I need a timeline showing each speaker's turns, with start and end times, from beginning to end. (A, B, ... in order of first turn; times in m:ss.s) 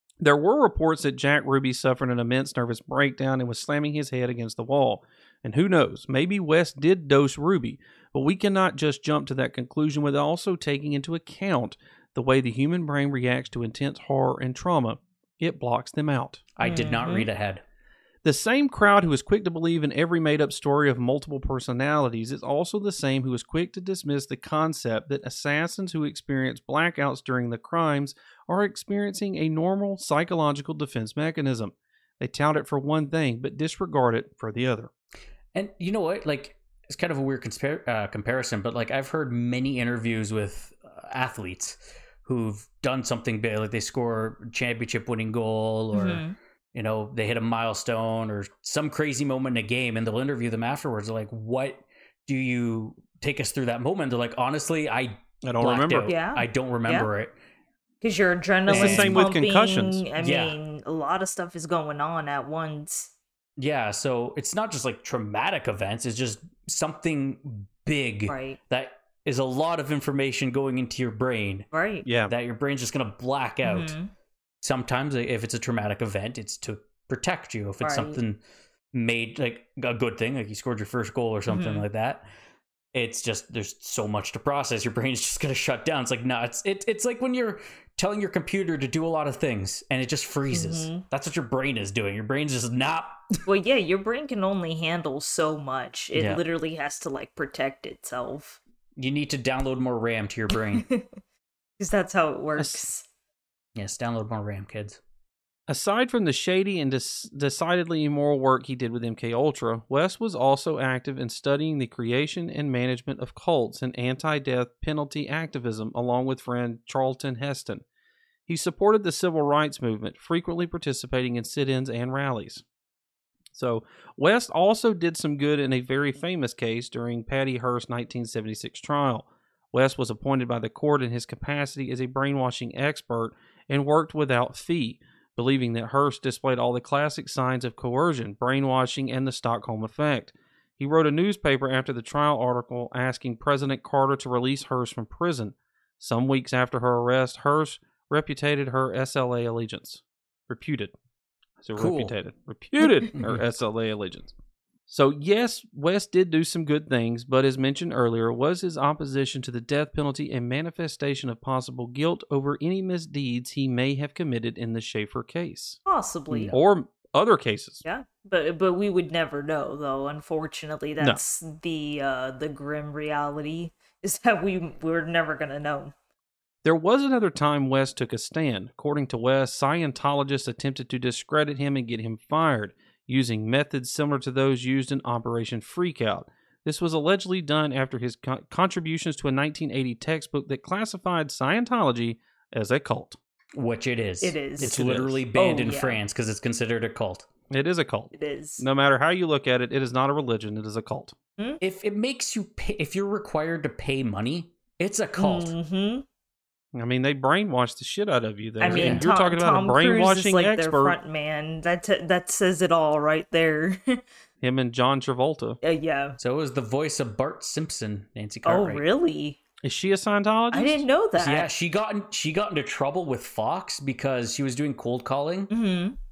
0:00.2-0:16.4 A
0:16.6-0:17.6 B
0:16.6-0:17.3 C
0:18.2-0:34.9 A
0:35.5-0:46.2 B
0:45.9-0:46.4 C
0:46.7-0:57.3 B
0:55.4-0:56.1 A
0:56.1-0:57.1 C
0:58.0-1:03.1 C
0:58.7-0:59.3 B
0:58.7-1:00.0 A
1:00.2-1:00.6 B
1:03.6-1:11.7 B
1:08.3-1:08.6 C
1:11.7-1:12.1 C
1:12.0-1:12.3 A
1:12.3-1:14.0 B
1:13.6-1:14.1 C
1:14.6-1:18.4 B
1:17.8-1:18.2 C
1:18.9-1:22.3 B
1:21.5-1:21.8 C
1:22.9-1:33.3 B
1:30.5-1:31.0 C
1:33.5-1:38.6 C
1:36.1-1:36.4 B
1:39.0-1:40.9 B
1:40.5-1:41.1 C
1:41.8-1:43.0 C
1:42.6-1:42.8 A
1:43.8-1:45.0 B
1:45.7-1:57.8 A
1:58.5-2:02.6 A
2:03.5-2:30.9 A
2:31.6-2:34.3 A
2:31.8-2:32.1 B
2:33.1-2:33.4 B
2:34.9-2:45.8 A
2:45.8-2:46.5 C
2:46.3-2:46.6 B
2:46.5-2:47.8 A
2:47.8-2:55.9 C
2:56.6-3:13.2 A
3:13.5-3:17.3 B
3:14.2-3:14.7 C
3:14.6-3:15.2 A
3:15.4-3:16.0 C
3:17.5-3:21.1 A
3:18.1-3:18.6 C
3:21.6-3:25.5 B
3:25.2-3:26.0 C
3:26.7-3:31.0 A
3:28.6-3:34.0 C
3:28.6-3:29.0 B
3:34.4-3:35.6 A
3:35.6-3:36.2 C
3:36.2-3:38.8 B
3:38.4-3:39.4 C
3:39.6-3:40.8 A
3:40.5-3:41.5 C
3:41.2-3:45.5 B
3:45.5-3:46.0 C